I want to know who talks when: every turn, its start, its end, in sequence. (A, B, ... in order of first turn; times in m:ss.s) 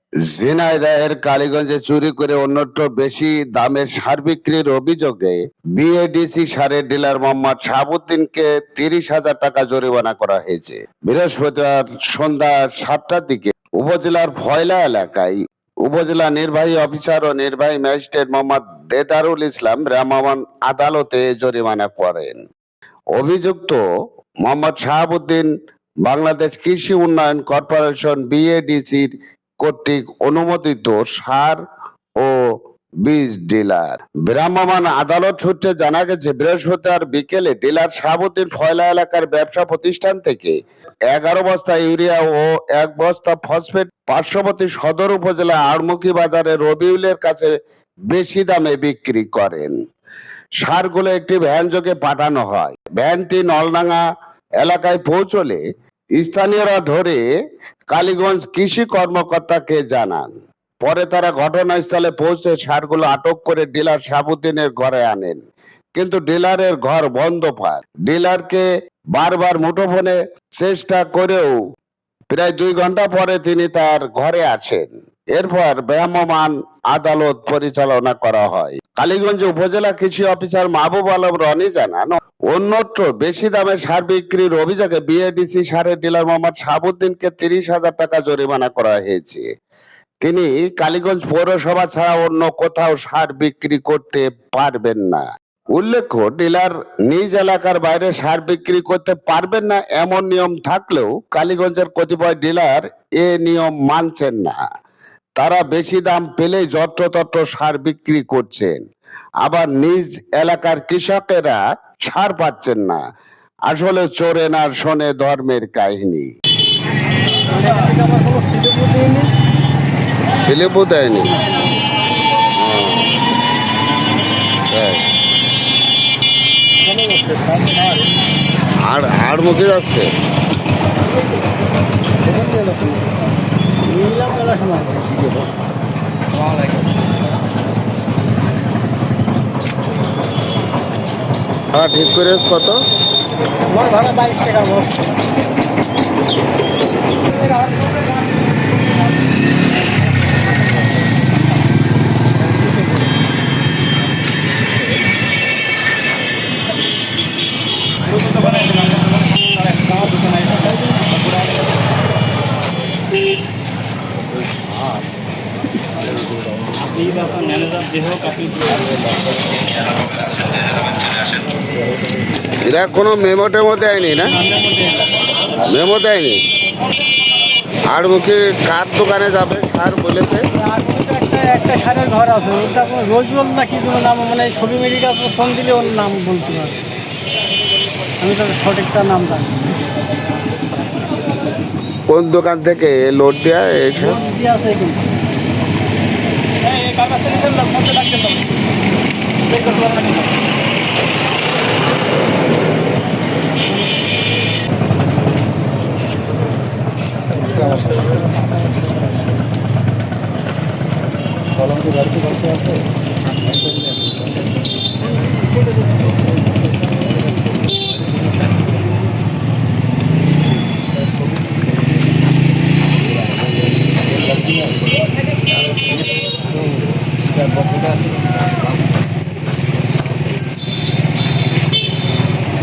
0:00.3-0:22.4 A
0:23.2-0:23.8 A
0:24.4-0:25.5 A
0:26.0-0:29.1 A
0:29.6-0:31.6 A
0:32.2-0:32.5 A
0:33.0-0:40.6 A
0:41.1-0:47.5 A
0:48.1-0:49.7 A
0:50.6-0:54.0 A
0:54.6-0:55.6 A
0:56.2-0:57.2 A
0:57.9-1:05.4 A
1:06.0-1:11.5 A
1:12.3-1:29.5 A
1:30.2-1:35.2 A
1:35.8-1:44.6 A
1:45.4-1:48.8 A
1:49.4-1:53.0 A
1:53.7-1:56.3 A
1:57.6-1:59.3 B
2:00.4-2:01.4 A
2:02.6-2:03.1 A
2:04.7-2:05.0 A
2:06.9-2:08.0 B
2:08.8-2:10.1 A
2:12.4-2:13.0 B
2:13.9-2:15.0 B
2:15.1-2:15.5 A
2:16.4-2:16.7 C
2:21.7-2:22.8 A
2:23.7-2:25.0 B
2:38.2-2:39.2 C
2:46.8-2:48.7 C
2:52.6-2:54.4 A
2:54.5-2:55.0 B
2:55.6-2:56.4 A
2:57.9-3:00.5 A
3:00.7-3:06.5 B
3:02.8-3:03.1 C
3:05.7-3:06.7 C
3:08.2-3:09.6 B
3:12.1-3:14.3 A
3:14.4-3:15.0 B
3:16.7-3:18.4 C
3:19.5-3:20.3 C
3:31.7-3:32.6 C